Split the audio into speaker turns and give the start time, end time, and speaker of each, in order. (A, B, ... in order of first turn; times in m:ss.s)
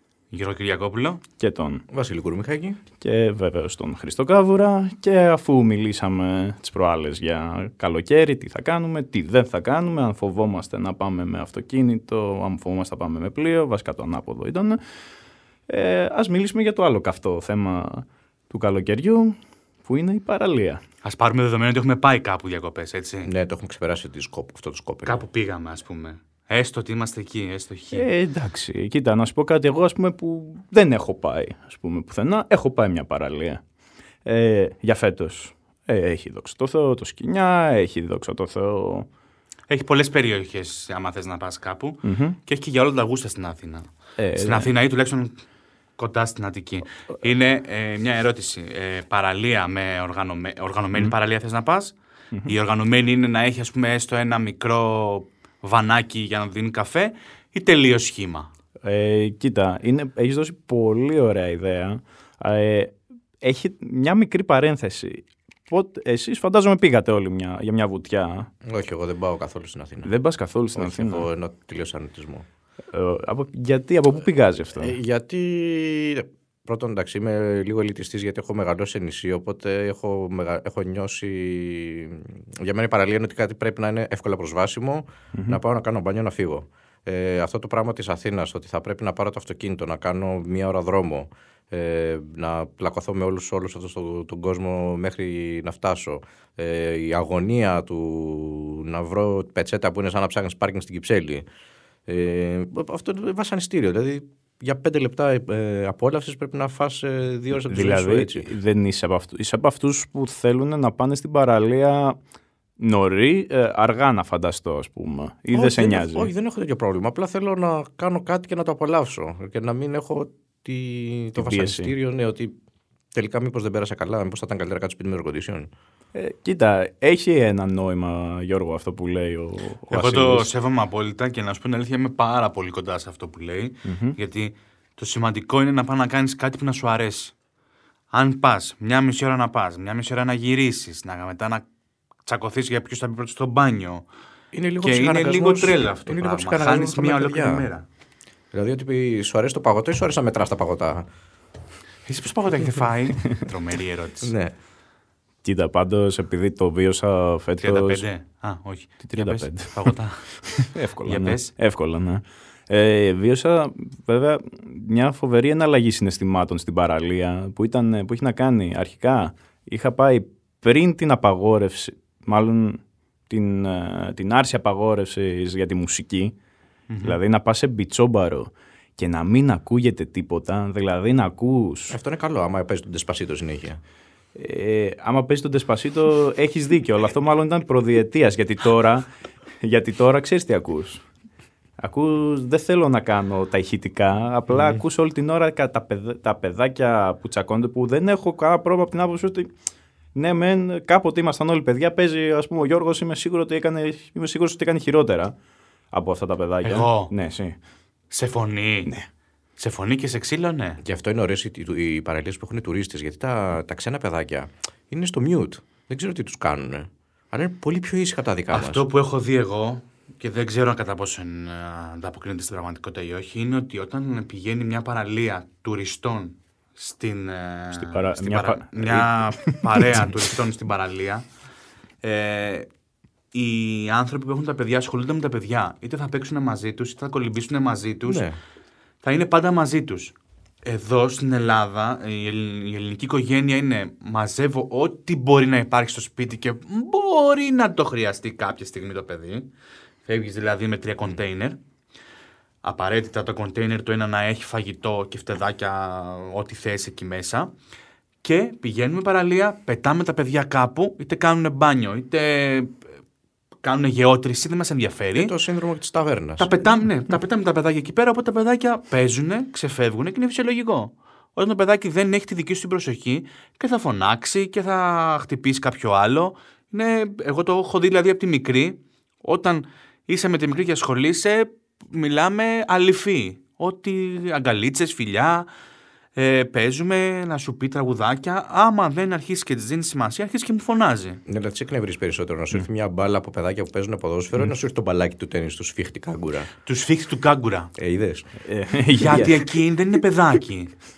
0:00.3-0:01.2 A
0:01.4-0:01.8 B
0:01.9-0:02.8 C
0:03.0-0:14.8 B
0:15.7-0:19.3 B
0:19.8-0:20.8 B
0:21.0-0:23.3 A
0:23.2-0:25.1 C
0:25.0-0:28.1 A
0:27.9-0:33.6 B
0:34.2-0:39.0 B
0:39.7-0:45.4 A
0:42.0-0:42.4 B
0:44.2-0:44.7 B
0:46.0-0:58.5 A
0:58.8-1:08.5 B
1:08.6-1:10.1 C
1:10.0-1:11.2 B
1:10.8-1:12.4 C
1:12.9-1:15.0 B
1:14.7-1:41.4 C
1:25.3-1:25.6 B
1:42.1-1:48.5 C
1:47.7-1:52.2 B
1:52.8-1:56.3 B
1:55.5-2:02.5 C
2:01.4-2:01.9 B
2:03.1-2:05.7 C
2:06.1-2:10.5 B
2:09.9-2:17.3 A
2:13.8-2:14.2 B
2:18.1-2:21.6 A
2:22.2-2:24.0 A
2:24.5-2:27.7 C
2:24.8-2:27.8 A
2:28.5-2:31.0 C
2:32.0-2:34.3 A
2:34.2-2:34.5 C
2:35.4-2:38.0 B
2:37.6-2:40.3 A
2:39.0-2:39.9 B
2:40.4-2:56.3 B
2:41.0-2:41.5 A
2:56.9-2:57.2 A
2:57.0-3:02.0 B
3:01.9-3:03.8 C
3:04.3-3:09.1 B
3:09.6-3:11.0 B
3:11.8-3:19.5 B
3:14.5-3:14.8 C
3:20.1-3:25.3 B
3:25.9-3:27.5 B
3:26.6-3:27.1 A
3:28.1-3:28.9 A
3:29.6-3:30.8 A
3:30.8-3:38.8 C
3:38.5-3:51.2 A
3:47.7-3:50.2 B
3:52.0-3:52.7 A
3:53.3-3:58.2 A
3:58.0-3:58.4 C
3:59.0-4:00.1 A
4:00.6-4:09.5 A
4:10.0-4:11.6 A
4:12.6-4:17.5 A
4:18.2-4:22.8 A
4:23.6-4:25.3 A
4:25.2-4:26.5 C
4:26.4-4:45.5 A
4:46.1-4:51.2 A
4:51.3-4:56.5 C
4:56.6-4:57.7 A
4:57.8-4:58.3 C
4:58.4-4:59.5 B
4:59.0-5:00.7 A